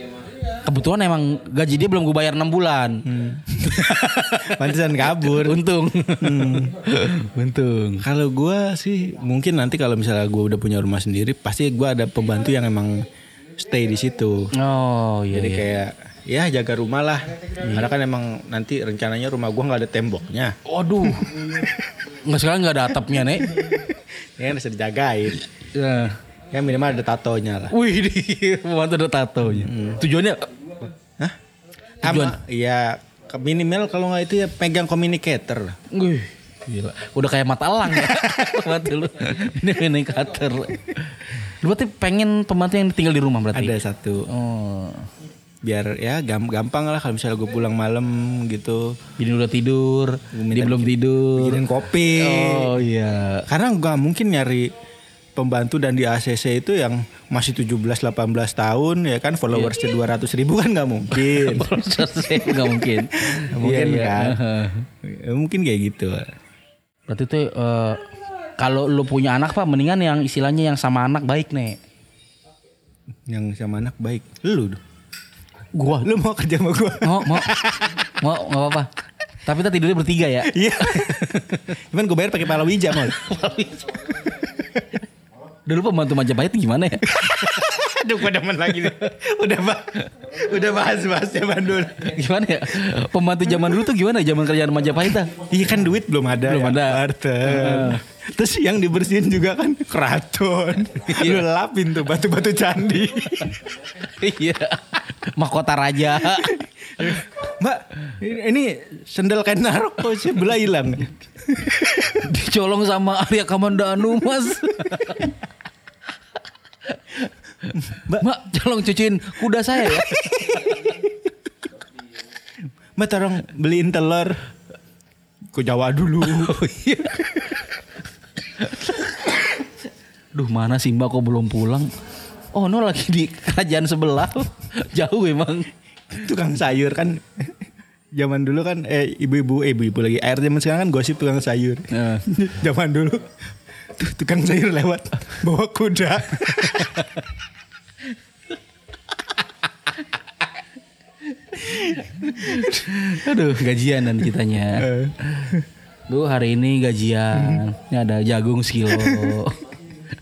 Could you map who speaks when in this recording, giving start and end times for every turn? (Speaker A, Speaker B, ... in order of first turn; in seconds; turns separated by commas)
Speaker A: 0.5-3.1, Speaker B: 3.0-5.6, Speaker A: 3.6-8.1, Speaker B: 6.2-6.8, Speaker B: 8.0-14.5, Speaker A: 14.5-15.7, Speaker B: 15.3-21.8, Speaker A: 17.6-17.9, Speaker A: 20.6-21.4, Speaker A: 22.2-23.7, Speaker B: 23.6-25.4, Speaker A: 25.7-26.2, Speaker B: 26.5-27.8, Speaker A: 27.7-30.5, Speaker B: 29.5-30.0, Speaker B: 32.0-35.8, Speaker A: 32.0-32.4, Speaker A: 35.9-43.8, Speaker B: 38.0-38.3, Speaker B: 43.5-44.3, Speaker A: 44.3-45.1, Speaker B: 45.6-49.0, Speaker A: 49.2-53.5, Speaker B: 50.3-52.8, Speaker B: 53.5-54.7, Speaker B: 55.4-61.7, Speaker A: 61.1-64.9, Speaker B: 63.3-64.4, Speaker B: 65.0-66.3, Speaker A: 67.1-68.1, Speaker A: 68.6-71.8, Speaker B: 73.3-74.8, Speaker A: 75.7-76.1, Speaker B: 76.0-78.0, Speaker A: 77.0-78.9, Speaker A: 79.5-81.1, Speaker B: 80.5-83.3, Speaker A: 83.0-84.2, Speaker B: 84.5-85.0, Speaker A: 85.7-87.5, Speaker B: 87.1-92.2, Speaker A: 92.0-95.3, Speaker B: 95.3-103.7, Speaker A: 96.5-98.0, Speaker A: 101.0-101.5, Speaker A: 103.9-106.6, Speaker B: 106.2-112.2, Speaker A: 112.1-115.3, Speaker A: 116.9-120.9, Speaker B: 117.9-118.3, Speaker B: 123.0-124.4, Speaker B: 125.5-126.5, Speaker A: 126.2-127.5, Speaker A: 130.3-131.9, Speaker A: 132.5-135.7, Speaker B: 136.1-137.6, Speaker B: 138.1-143.3, Speaker A: 141.9-142.3, Speaker B: 143.9-147.1, Speaker A: 151.6-155.6, Speaker B: 151.7-152.8, Speaker B: 154.8-155.7, Speaker A: 156.1-159.7, Speaker B: 157.3-157.6, Speaker B: 158.9-159.4